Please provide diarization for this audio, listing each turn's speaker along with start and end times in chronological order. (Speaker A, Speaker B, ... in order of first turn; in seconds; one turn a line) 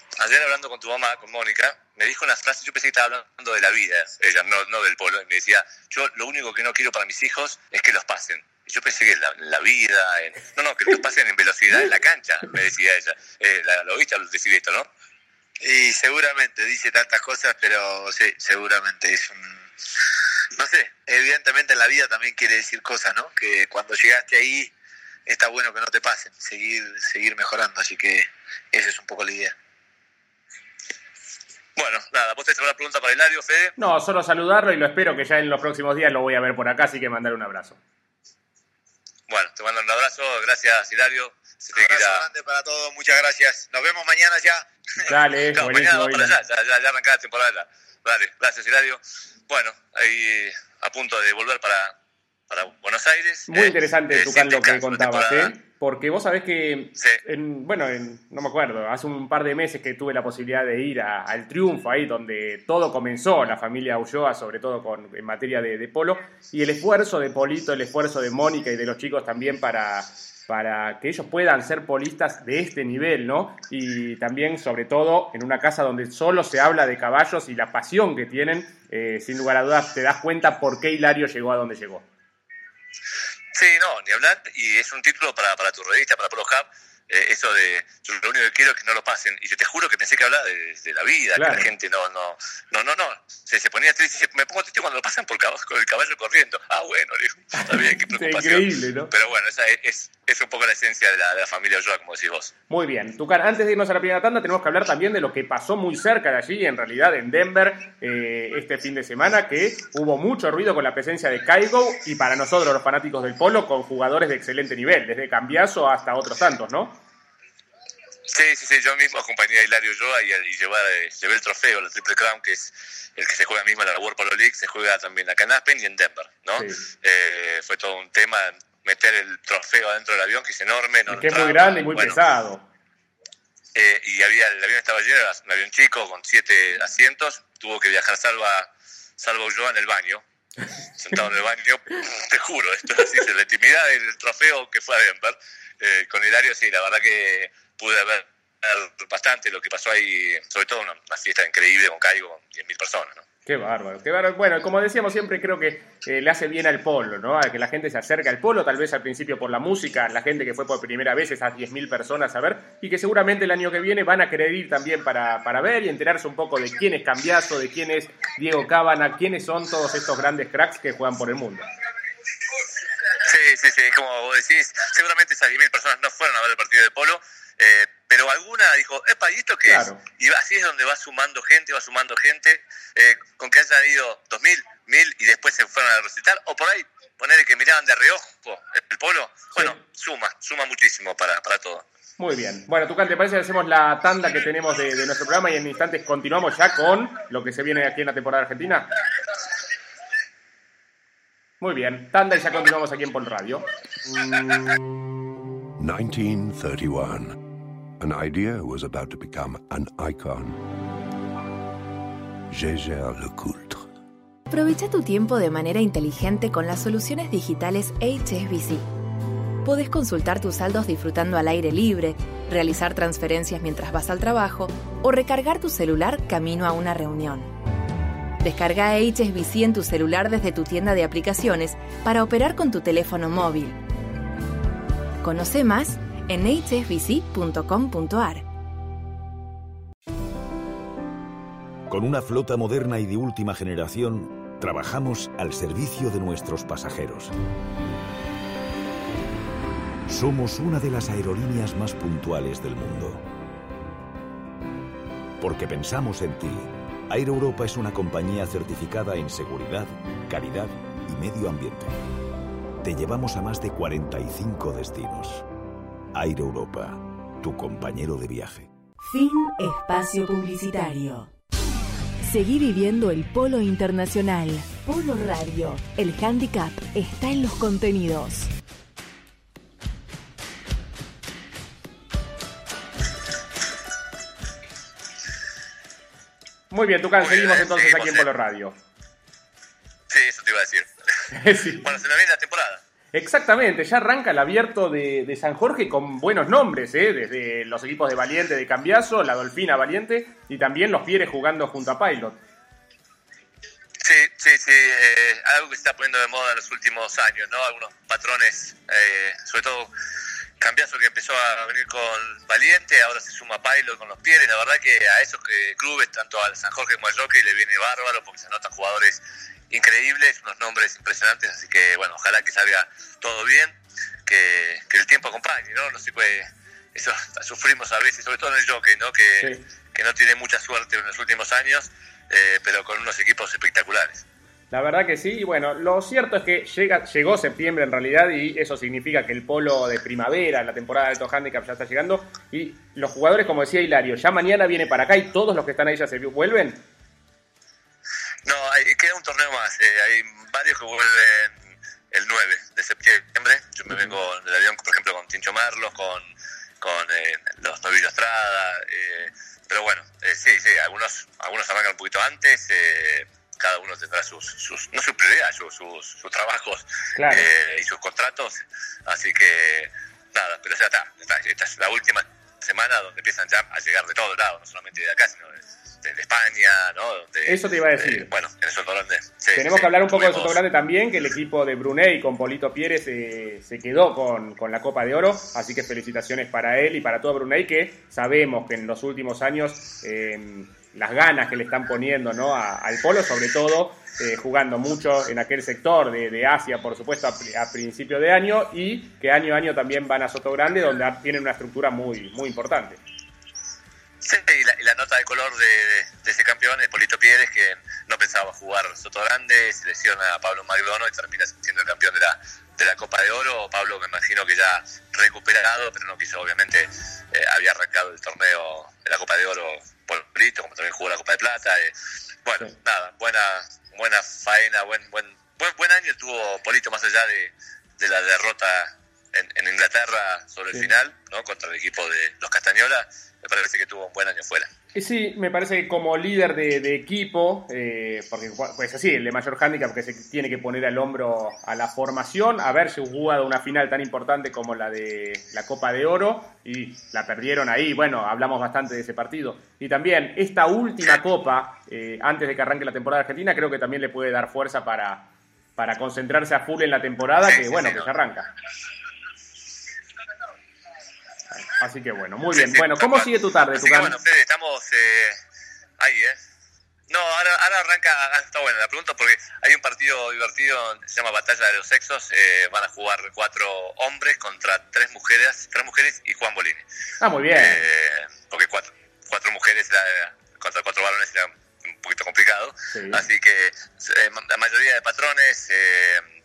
Speaker A: 0.2-14.9
Speaker B: 15.6-19.6
Speaker B: 20.6-24.7
Speaker B: 25.3-29.5
Speaker A: 31.8-33.7
Speaker C: 33.8-37.8
Speaker A: 39.3-42.2
Speaker B: 41.7-44.6
Speaker C: 45.0-46.4
Speaker A: 45.5-51.9
Speaker A: 52.5-55.5
Speaker C: 53.5-82.1
Speaker A: 57.0-57.2
Speaker A: 83.5-102.5
Speaker C: 91.4-91.7
Speaker C: 97.6-99.1
Speaker C: 102.7-117.0
Speaker A: 118.3-132.2
Speaker C: 126.6-126.8
Speaker C: 131.1-132.6
Speaker A: 133.8-140.2
Speaker A: 140.9-153.2
Speaker C: 153.5-171.7
Speaker A: 173.2-191.8
Speaker C: 179.7-180.0
Speaker C: 192.2-198.9
Speaker C: 201.6-203.7
Speaker D: 205.8-207.4
Speaker D: 208.0-210.6
Speaker D: 212.5-213.8
Speaker E: 214.5-218.9
Speaker E: 219.6-227.5
Speaker E: 228.4-233.8
Speaker E: 235.2-238.4
Speaker F: 241.9-247.3
Speaker F: 250.1-253.2
Speaker F: 255.4-262.0
Speaker F: 262.8-265.5
Speaker F: 266.1-268.7
Speaker E: 269.1-271.3
Speaker E: 272.3-278.5
Speaker C: 286.7-288.8
Speaker A: 287.2-288.3
Speaker A: 290.1-290.9
Speaker C: 291.3-291.8
Speaker A: 291.8-292.8
Speaker C: 293.1-302.4
Speaker A: 304.0-309.9
Speaker A: 310.6-323.8
Speaker A: 324.3-334.2
Speaker C: 334.7-346.8
Speaker A: 348.4-351.5
Speaker A: 352.1-356.3
Speaker A: 356.8-380.6
Speaker C: 367.2-367.5
Speaker C: 377.5-378.3
Speaker C: 379.5-403.0
Speaker A: 404.2-421.9
Speaker A: 422.4-434.7
Speaker C: 434.9-458.5
Speaker A: 457.4-458.1
Speaker C: 461.6-464.2
Speaker A: 462.5-465.4
Speaker A: 466.0-466.4
Speaker A: 467.1-476.8
Speaker C: 477.2-477.8
Speaker A: 477.5-486.2
Speaker C: 482.9-483.2